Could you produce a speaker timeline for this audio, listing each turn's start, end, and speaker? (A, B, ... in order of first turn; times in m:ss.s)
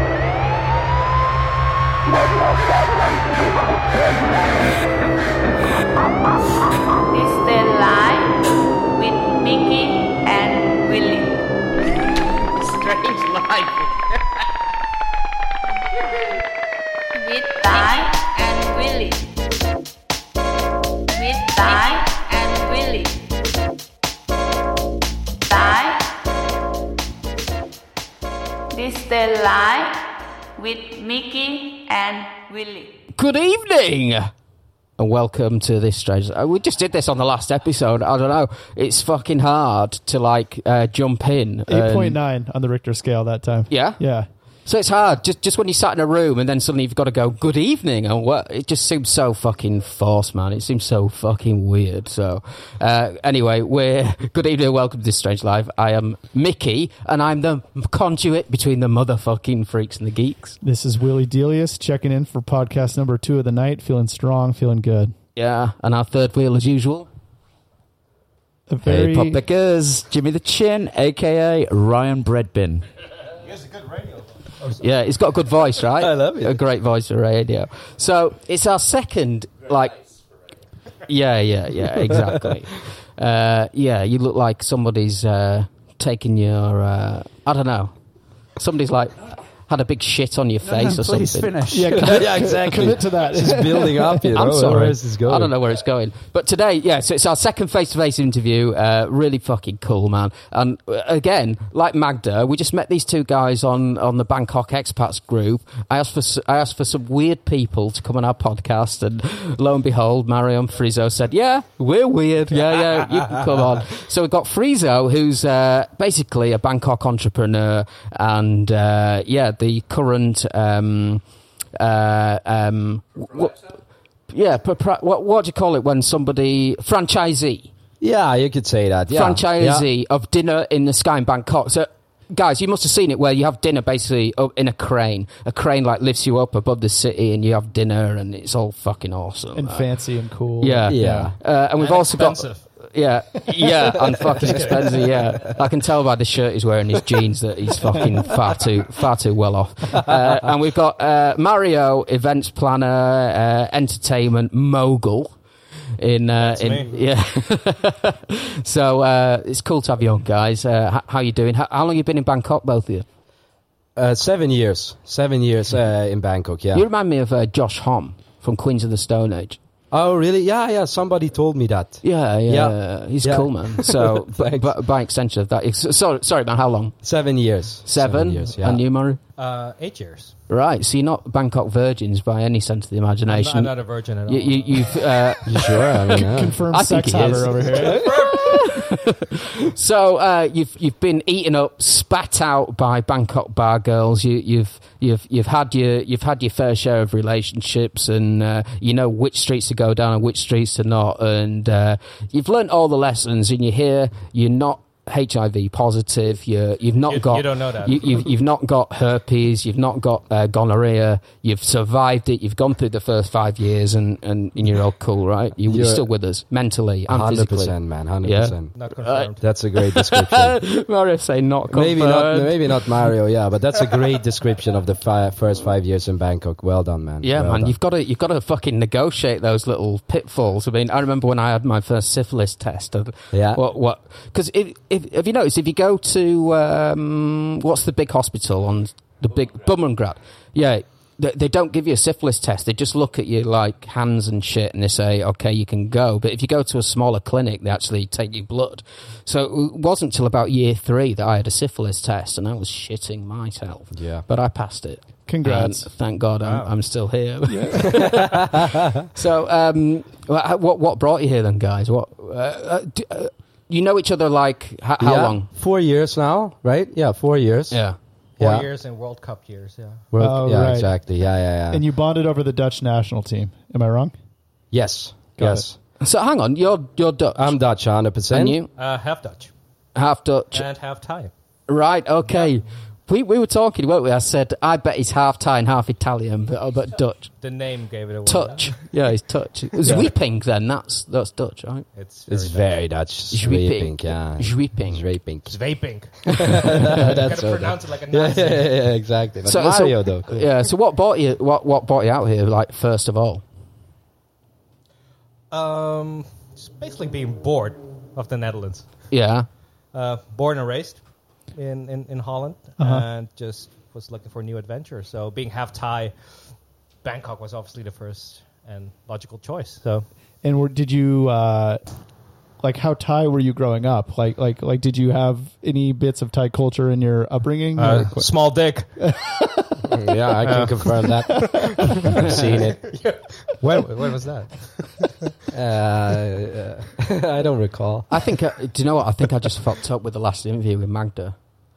0:07.1-0:11.4 A
0:12.8-0:13.1 A
0:17.1-0:19.2 A
0:21.1-0:23.2 A
0:25.4-0:26.2 A
0:28.7-0:33.0 A
0:33.1-0:34.3 B
0:35.0-0:42.2 B
0:41.7-0:44.3 C
0:43.7-0:44.1 B
0:44.6-1:00.6 B
1:00.6-1:05.1 C
1:05.4-1:07.1 B
1:08.7-1:09.4 C
1:08.8-1:12.8 D
1:14.7-1:20.0 B
1:16.0-1:16.6 E
1:21.0-1:27.9 B
1:28.6-1:31.6 B
1:30.6-1:32.0 D
1:31.7-1:34.2 C
1:32.0-1:35.5 E
1:34.3-2:01.2 B
2:01.8-2:03.8 B
2:04.3-2:07.7 B
2:08.0-2:09.9 E
2:09.1-2:19.9 B
2:19.5-2:21.3 C
2:20.6-2:35.4 B
2:20.9-2:21.3 E
2:21.7-2:22.6 F
2:24.3-2:25.1 F
2:36.0-2:43.0 B
2:36.4-2:37.0 F
2:44.0-2:46.8 E
2:46.7-2:49.6 B
2:49.9-2:54.7 E
2:52.0-2:57.0 B
2:57.0-2:58.8 E
2:57.8-2:59.2 B
2:59.4-3:00.3 F
3:00.5-3:42.8 B
3:03.3-3:05.0 F
3:05.4-3:06.6 E
3:06.2-3:08.6 C
3:07.6-3:08.5 F
3:27.0-3:28.2 F
3:35.7-3:36.0 E
3:37.1-3:38.8 E
3:38.8-3:39.5 F
3:39.4-3:40.6 E
3:41.7-3:47.7 E
3:47.2-4:18.4 B
3:53.3-3:53.6 E
4:13.9-4:14.2 E
4:15.2-4:15.9 C
4:16.4-4:16.7 F
4:17.5-4:18.0 C
4:17.9-4:18.9 E
4:19.1-4:25.5 B
4:25.0-4:27.8 E
4:27.7-4:28.0 B
4:28.4-4:28.7 E
4:28.4-4:30.1 F
4:30.1-4:31.8 E
4:30.2-4:31.0 C
4:31.7-4:34.1 C
4:34.7-4:35.8 E
4:35.4-4:35.6 C
4:36.0-4:37.6 B
4:37.4-4:38.6 E
4:38.3-4:38.7 B
4:38.7-4:39.5 F
4:39.9-4:40.6 B
4:40.5-4:41.3 F
4:41.7-4:47.4 B
4:42.2-4:42.6 F
4:47.4-4:48.8 F
4:48.2-4:51.8 B
4:51.9-4:52.8 F
4:52.3-4:55.8 E
4:53.3-4:55.0 B
4:55.5-4:58.8 F
4:56.5-5:00.5 E
4:59.4-5:03.4 B
5:05.5-5:08.9 F
5:09.1-5:09.5 B
5:09.9-5:11.0 F
5:11.5-5:16.4 F
5:12.8-5:13.1 C
5:17.0-5:20.1 F
5:20.4-5:21.8 C
5:22.6-5:29.3 C
5:27.8-5:29.0 F
5:29.9-5:33.0 E
5:30.4-5:35.3 F
5:35.5-5:38.1 E
5:38.1-5:41.4 B